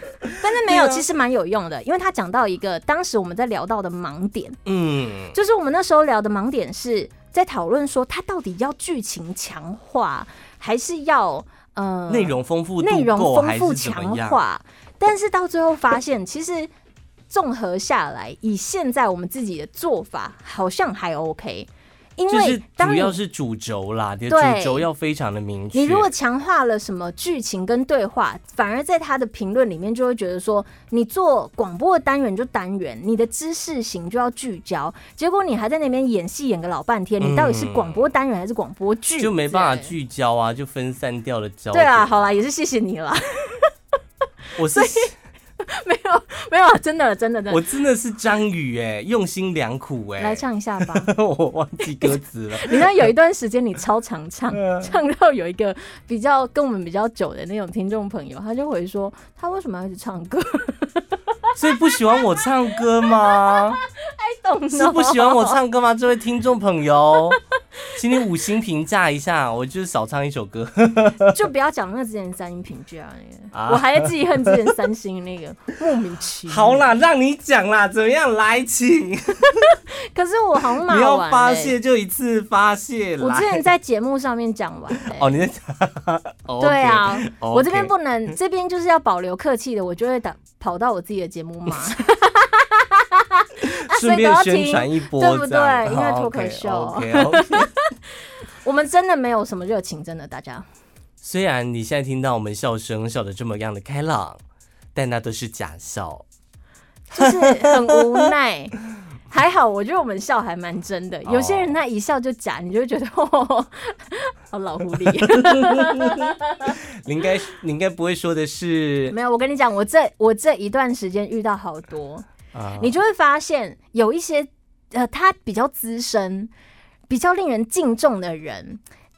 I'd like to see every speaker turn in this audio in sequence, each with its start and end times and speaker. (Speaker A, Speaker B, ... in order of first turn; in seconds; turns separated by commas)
Speaker A: 0.3-4.6, Speaker B: 0.4-1.0, Speaker B: 4.7-5.3, Speaker A: 5.3-16.7, Speaker B: 12.1-14.4, Speaker A: 17.3-23.2, Speaker B: 22.3-26.1, Speaker A: 24.3-24.9, Speaker A: 25.7-39.9, Speaker B: 37.2-38.0, Speaker B: 39.2-42.3, Speaker A: 41.7-43.7, Speaker B: 44.6-45.1, Speaker A: 44.7-47.6, Speaker B: 47.5-53.1, Speaker A: 50.2-51.1, Speaker A: 52.0-65.6, Speaker B: 54.5-54.9, Speaker B: 61.6-63.8, Speaker B: 64.7-67.4, Speaker A: 67.2-68.2, Speaker B: 67.9-71.4, Speaker A: 71.3-76.8, Speaker B: 73.5-74.7, Speaker B: 76.5-79.8, Speaker A: 79.7-81.8, Speaker B: 80.7-83.6, Speaker A: 83.2-85.4, Speaker B: 85.0-88.3, Speaker A: 86.6-97.8, Speaker B: 93.6-97.7, Speaker A: 98.6-100.7, Speaker B: 101.2-104.4, Speaker B: 104.9-106.2, Speaker A: 107.1-108.8, Speaker B: 107.2-108.0, Speaker A: 109.3-116.8, Speaker B: 111.2-111.7, Speaker B: 115.0-119.2, Speaker A: 119.1-122.3, Speaker B: 122.5-123.0, Speaker A: 122.8-126.5, Speaker A: 127.1-128.8